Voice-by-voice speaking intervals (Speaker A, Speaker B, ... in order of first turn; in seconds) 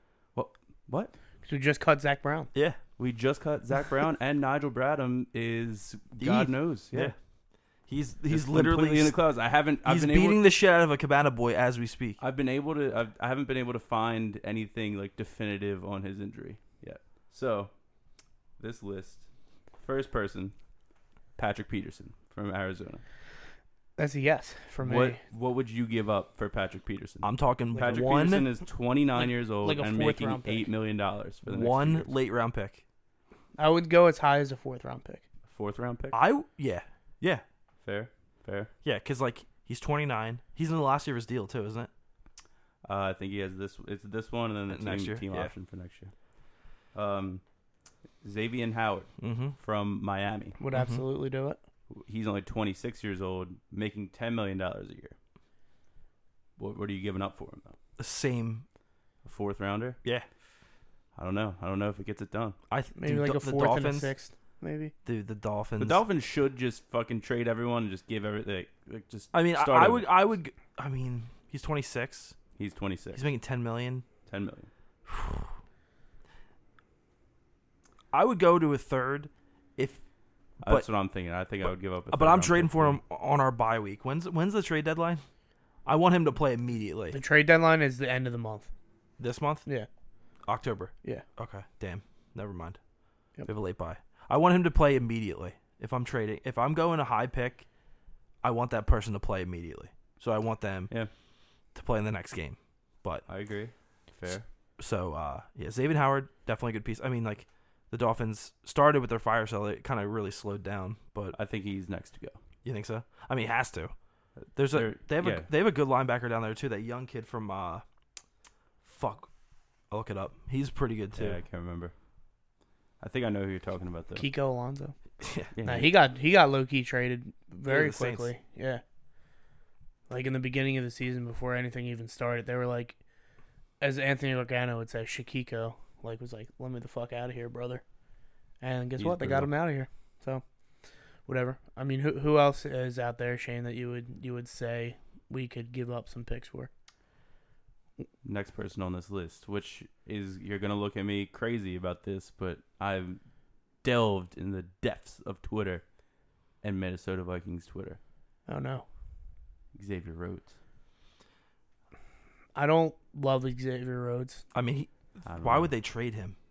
Speaker A: 0.3-1.1, 3.0-7.1, 8.3-10.4, 12.2-17.7, 18.6-19.3, 19.8-20.6, 21.4-23.0, 24.8-32.1, 35.5-36.2, 37.8-38.7, 42.9-46.1, 46.9-47.4, 48.2-50.6, 51.9-55.1, 56.6-57.8, 59.2-60.0, 61.2-62.6, 65.8-70.1, 72.6-73.3, 74.3-74.7, 80.6-83.0, 103.3-104.5, 111.3-112.4, 114.4-115.5, 121.2-121.9, 123.0-124.3, 125.6-125.9, 139.0-139.5, 148.2-153.2, 153.8-155.8, 156.6-158.0, 159.7-160.5, 165.3-165.7
Speaker B: 1.4-2.5, 24.0-25.2, 27.8-28.0, 29.2-30.7, 33.6-35.2, 50.6-51.6, 63.0-64.9, 87.1-88.7, 124.2-125.0, 125.6-128.8, 130.1-133.0, 133.8-137.8, 138.6-140.4, 141.3-146.7, 158.5-158.8, 162.6-164.4
Speaker C: 2.5-2.8, 6.2-7.2, 7.9-9.2, 9.8-12.2, 27.2-28.5, 31.4-32.8, 36.1-37.4, 38.8-41.9, 44.7-45.5, 49.2-49.6, 50.7-51.0, 58.0-58.6, 62.7-64.1, 65.0-66.0, 69.3-72.4, 73.2-74.1, 75.1-75.5, 78.1-80.0, 80.6-80.9, 82.1-85.2, 85.8-87.2, 89.2-89.7, 90.5-92.8, 93.5-97.7, 98.4-100.9, 101.8-103.3, 104.8-111.4, 112.6-113.9, 114.5-117.8, 118.8-119.3, 119.9-121.4, 125.2-125.5, 127.7-128.3, 164.5-166.4